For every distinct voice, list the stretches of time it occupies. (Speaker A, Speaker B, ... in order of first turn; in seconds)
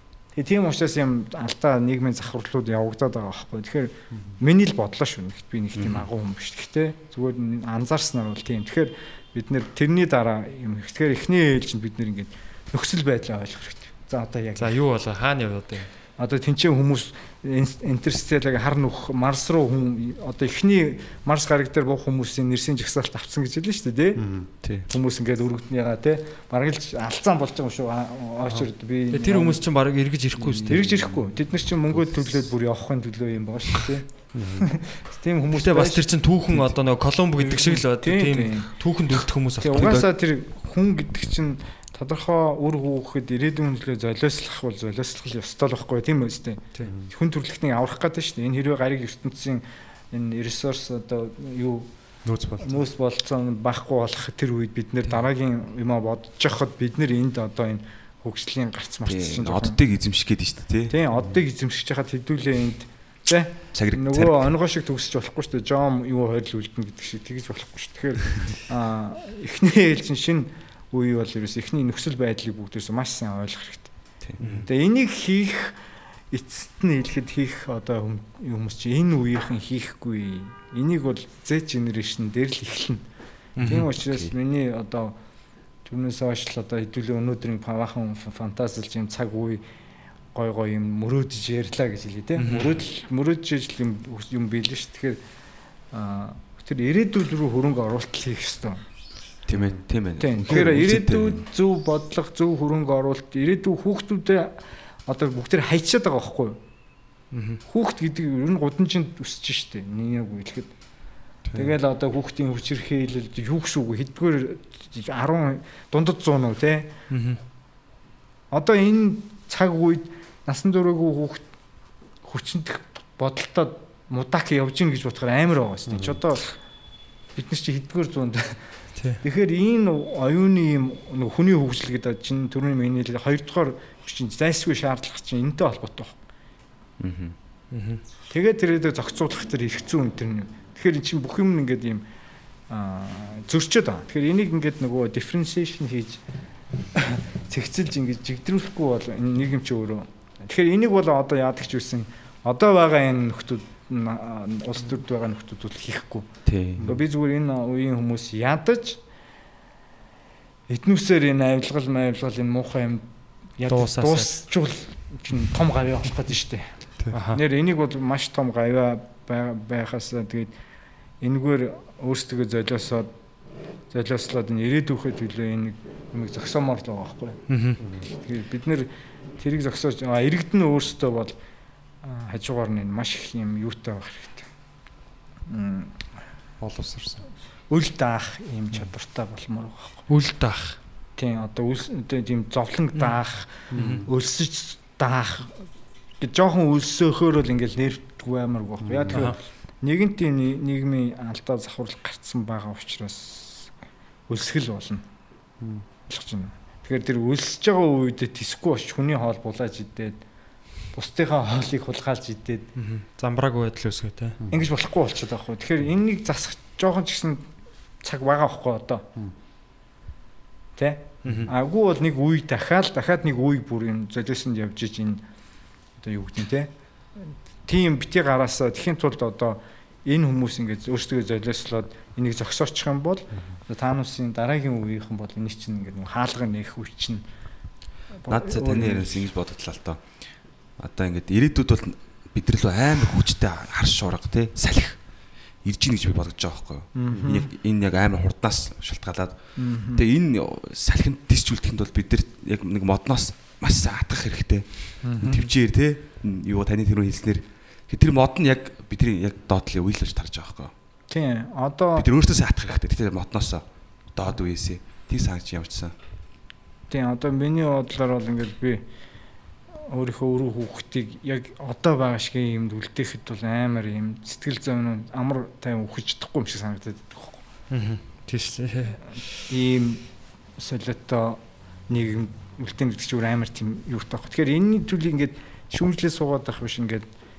Speaker A: 0.3-14.8, 16.2-24.3, 24.9-29.6, 30.5-36.7, 37.4-38.7, 39.6-51.9, 52.6-59.8, 60.9-73.9, 74.6-75.8, 76.3-83.0, 83.6-85.2, 85.8-89.6, 90.3-95.2, 95.9-98.8, 100.2-104.5, 105.1-106.6, 107.7-110.7, 111.5-116.9, 118.5-121.4, 122.2-126.6, 127.3-128.6, 129.2-136.2, 138.3-142.0, 142.7-146.2, 146.9-156.3, 156.8-159.0, 160.7-163.1, 163.6-166.7, 167.3-170.5, 171.2-173.1, 173.9-177.4, 178.0-181.3, 182.0-184.5, 185.5-186.0, 187.7-190.0, 191.2-195.6, 196.2-203.7, 204.3-205.0, 206.1-210.2, 210.9-212.7, 214.5-217.4, 218.0-219.1, 220.8-225.2, 226.0-237.2, 238.2-239.3, 246.9-247.5, 249.6-250.0, 255.0-255.5, 261.1-262.1, 266.9-268.8, 269.9-277.4, 279.5-280.0, 280.6-287.1
Speaker B: 5.8-6.1, 24.6-24.9, 39.7-40.0, 59.0-60.9, 63.7-64.5, 74.2-74.6, 83.6-84.3, 99.5-101.4, 137.0-137.3, 156.4-157.0, 238.2-245.1, 245.6-260.7, 261.9-265.9
Speaker C: 14.6-15.9, 28.5-30.9, 35.5-40.1, 74.4-74.7, 83.6-83.9, 92.3-92.7, 107.3-107.6, 117.1-117.4, 128.9-129.2, 137.7-138.0, 163.7-164.3, 167.1-167.4, 177.5-177.8, 190.1-190.8, 193.7-194.0, 199.1-199.3, 212.8-214.4, 221.2-221.5, 277.7-279.0
Speaker D: 24.2-24.5, 34.3-34.7, 46.8-47.1, 52.2-52.8, 99.5-99.8, 111.5-111.8, 125.9-126.2, 186.6-187.2, 193.7-194.1, 198.8-199.2, 205.6-205.8